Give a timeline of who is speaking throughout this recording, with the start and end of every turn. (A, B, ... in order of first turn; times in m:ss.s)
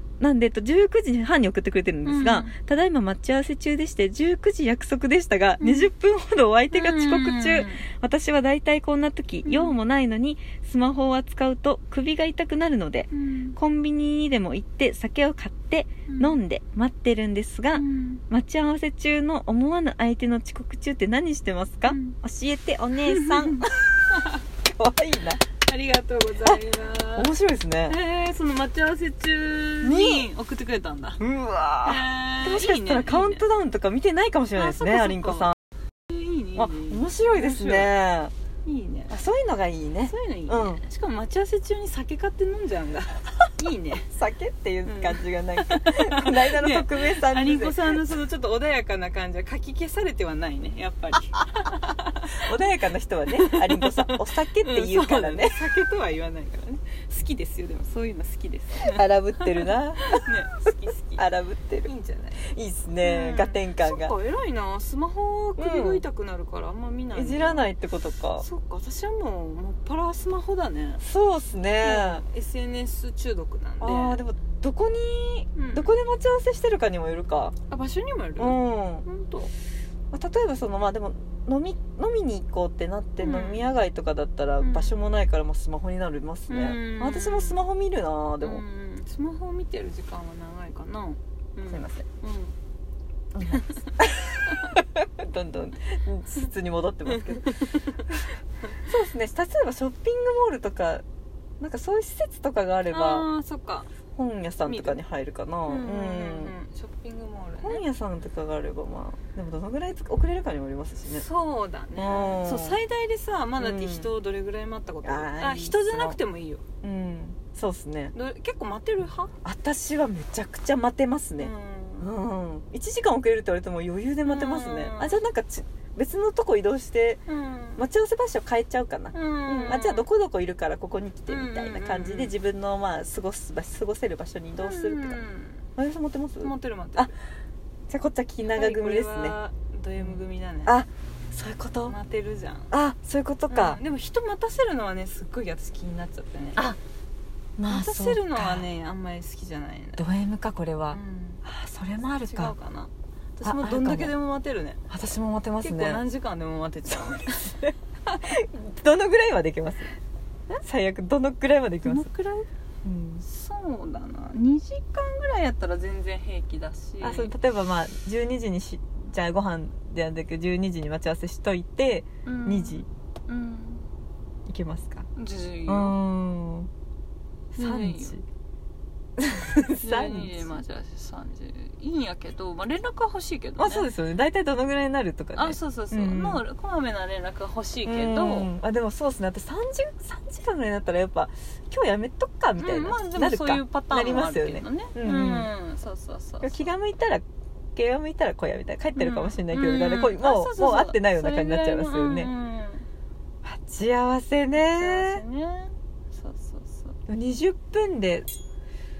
0:00.2-0:23.7 A
0:02.0-0:02.5 B
0:05.6-0:05.9 B
0:06.7-0:07.9 B
0:09.4-0:09.8 B
0:13.1-0:13.6 B
0:16.1-0:16.4 B
0:17.7-0:18.2 B
0:21.9-0:22.2 B
0:23.0-0:24.4 B
0:24.6-0:25.4 A
0:25.6-0:27.3 B
0:27.2-0:28.0 A
0:27.9-0:31.2 B
0:29.8-0:30.3 A
0:31.2-0:35.6 A
0:31.8-0:33.4 B
0:34.6-0:35.5 B
0:36.1-0:37.9 B
0:36.6-0:38.3 A
0:38.6-0:39.1 B
0:39.1-0:40.8 A
0:40.1-0:44.1 B
0:44.1-0:48.0 A
0:44.9-0:52.5 B
0:52.3-0:55.6 A
0:53.3-1:01.2 B
0:58.8-1:00.2 A
1:01.2-1:01.9 A
1:01.8-1:02.4 B
1:02.5-1:04.1 A
1:03.0-1:07.7 B
1:05.6-1:06.0 A
1:07.1-1:08.5 A
1:08.4-1:11.0 B
1:11.0-1:12.2 A
1:11.8-1:14.2 B
1:13.8-1:17.6 A
1:15.6-1:15.9 B
1:17.7-1:19.5 B
1:18.4-1:19.1 A
1:20.1-1:28.6 A
1:23.2-1:23.6 B
1:24.6-1:24.9 B
1:26.5-1:27.6 B
1:28.4-1:32.6 B
1:31.7-1:32.1 A
1:33.3-1:37.6 A
1:33.5-1:33.9 B
1:37.3-1:37.9 B
1:38.8-1:41.0 A
1:41.6-1:43.3 A
1:42.9-1:43.9 B
1:44.1-1:46.5 A
1:44.6-1:45.0 B
1:45.7-1:47.8 B
1:47.6-1:51.2 A
1:51.1-1:56.6 B
1:52.0-1:52.8 A
1:53.6-1:54.1 A
1:55.0-1:56.2 A
1:56.8-1:58.1 A
1:58.1-1:59.3 B
1:59.4-2:07.2 A
2:01.4-2:02.1 B
2:04.3-2:05.2 B
2:07.3-2:07.8 B
2:07.8-2:15.2 A
2:09.1-2:10.1 B
2:11.3-2:12.4 B
2:14.6-2:15.6 B
2:15.8-2:17.1 A
2:16.4-2:17.1 B
2:17.9-2:19.4 A
2:18.5-2:20.8 B
2:20.0-2:22.0 A
2:21.8-2:22.7 B
2:22.7-2:23.8 A
2:23.5-2:26.7 B
2:27.6-2:28.7 A
2:27.7-2:30.0 B
2:30.0-2:32.5 A
2:30.9-2:31.4 B
2:32.2-2:34.8 B
2:33.4-2:34.2 A
2:34.9-2:36.0 A
2:35.6-2:38.2 B
2:36.9-2:40.0 A
2:40.6-2:42.1 A
2:41.8-2:42.5 B
2:42.8-2:43.2 A
2:43.2-2:47.3 B
2:47.0-2:52.9 A
2:52.2-2:53.8 B
2:54.5-2:55.1 A
2:55.2-2:56.0 B
2:55.7-2:56.7 A
2:57.5-2:58.2 A
2:57.6-2:58.2 B
2:59.2-3:00.5 A
2:59.8-3:03.9 B
3:03.6-3:06.4 A
3:05.4-3:08.5 B
3:07.8-3:15.5 A
3:12.6-3:16.7 B
3:16.4-3:17.2 A
3:17.8-3:22.3 A
3:19.0-3:22.9 B
3:23.4-3:25.2 A
3:24.6-3:27.0 B
3:27.1-3:28.3 A